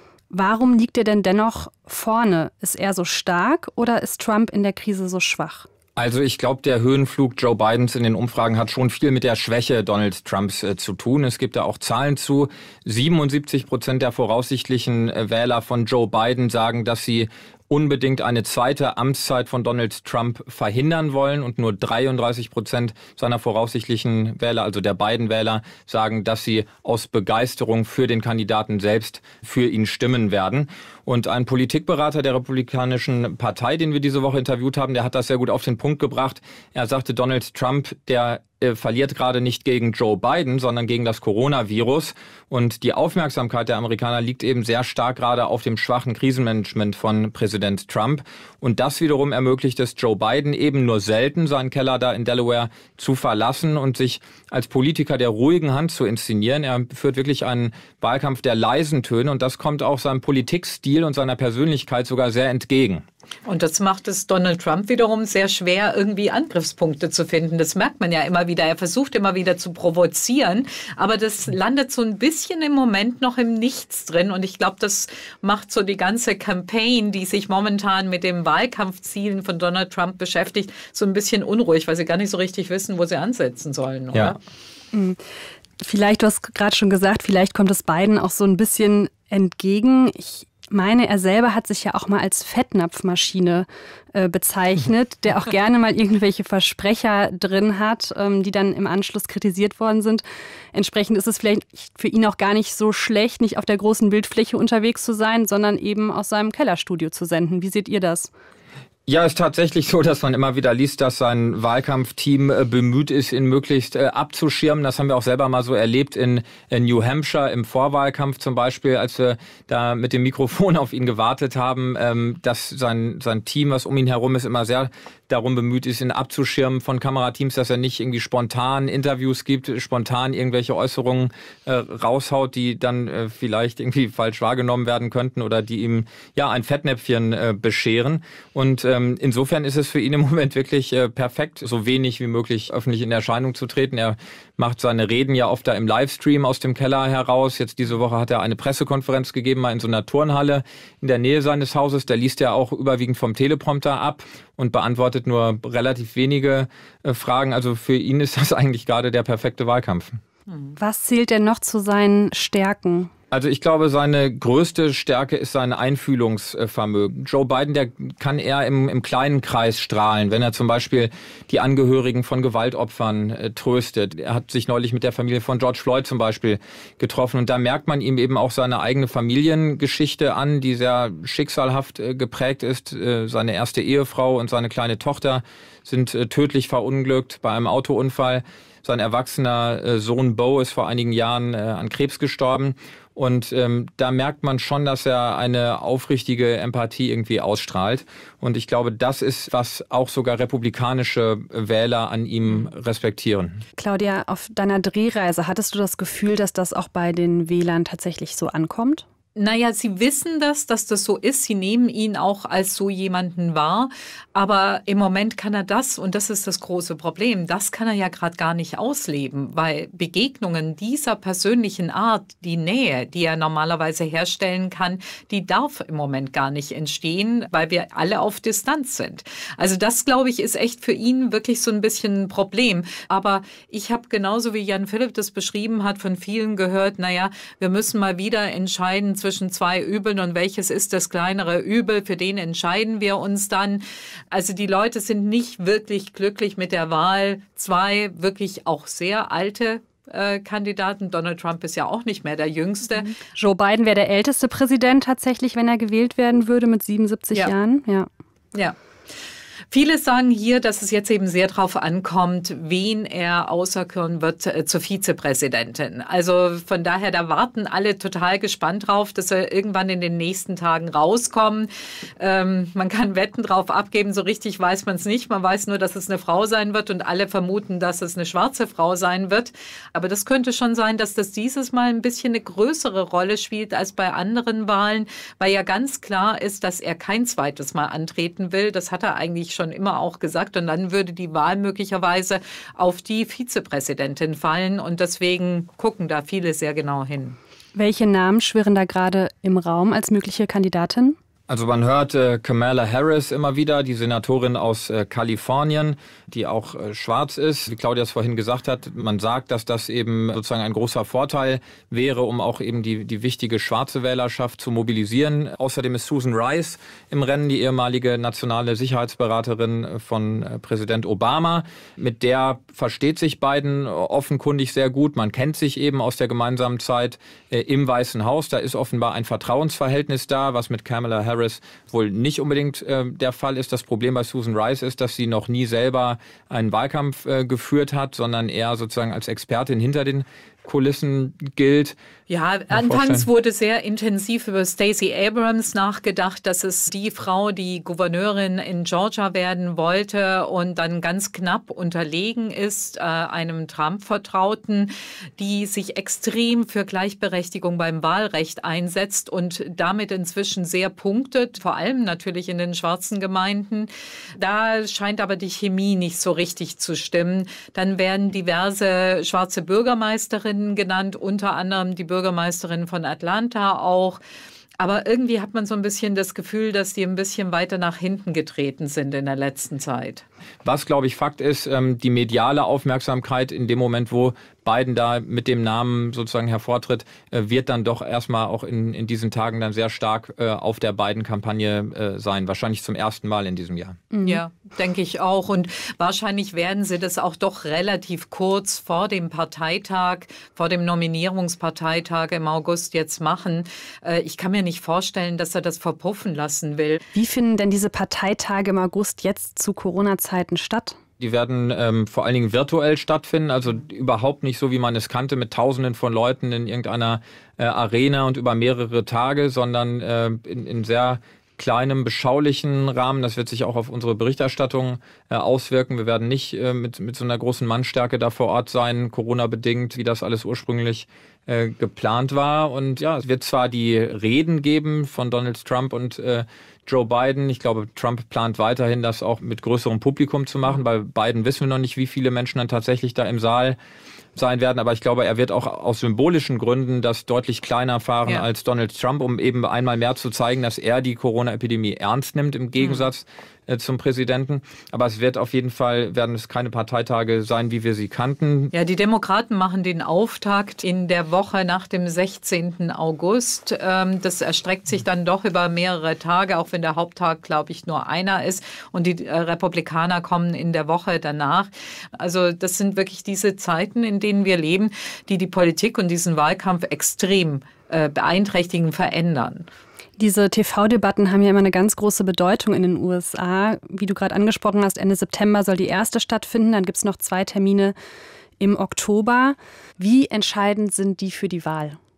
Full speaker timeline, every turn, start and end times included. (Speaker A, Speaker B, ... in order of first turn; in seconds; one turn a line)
Speaker A: 0.3-5.7
Speaker B: 6.0-63.0
Speaker C: 63.5-84.4
Speaker A: 84.9-85.2
Speaker A: 85.8-100.2
Speaker A: 100.7-108.3
Speaker B: 109.1-160.2
Speaker A: 160.8-163.1
Speaker B: 163.3-203.6
Speaker A: 203.8-209.1
Speaker C: 209.4-253.1
Speaker A: 253.1-258.1
Speaker C: 259.7-297.4
Speaker A: 297.8-301.2
Speaker B: 301.5-341.9
Speaker C: 342.3-374.2
Speaker B: 342.7-343.3
Speaker C: 374.8-380.2
Speaker B: 380.6-394.0
Speaker A: 394.1-394.4
Speaker C: 394.2-407.1
Speaker A: 407.1-411.0
Speaker B: 411.2-443.8
Speaker B: 444.4-458.7
Speaker C: 452.8-453.1
Speaker C: 458.7-479.7
Speaker A: 480.2-487.9
Speaker A: 488.6-492.0